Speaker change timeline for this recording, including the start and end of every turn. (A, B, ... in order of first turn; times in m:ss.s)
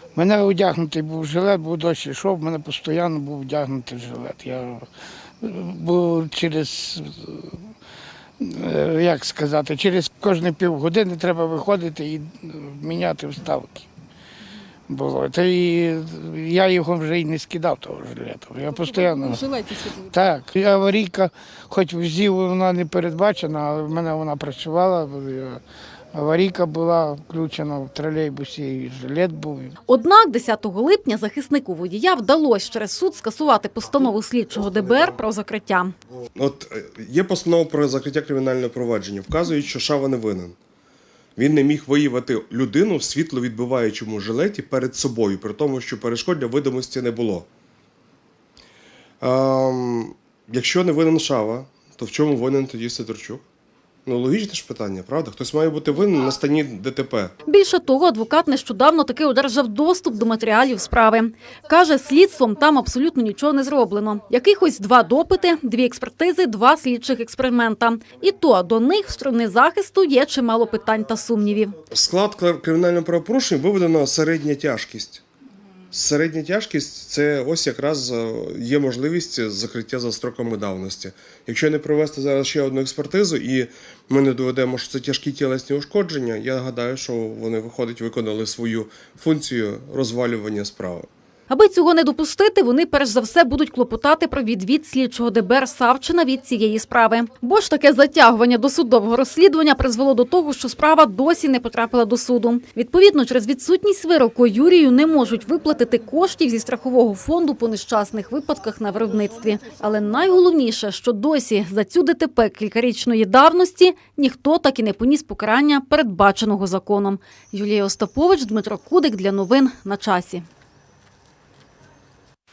0:00.2-0:04.9 A
0:05.4-0:07.7 A
0:08.4-0:13.9 A
0:14.9-0:25.6 A
0:18.7-0:20.1 B
0:26.1-0:29.7 A
0:29.9-0:35.9 B
0:36.4-0:40.6 C
0:41.4-0:47.5 C
0:49.2-0:53.4 C
0:54.0-0:57.3 C
0:57.5-1:11.8 B
1:11.9-1:15.2 C
1:15.9-1:31.1 C
1:31.5-2:00.5 B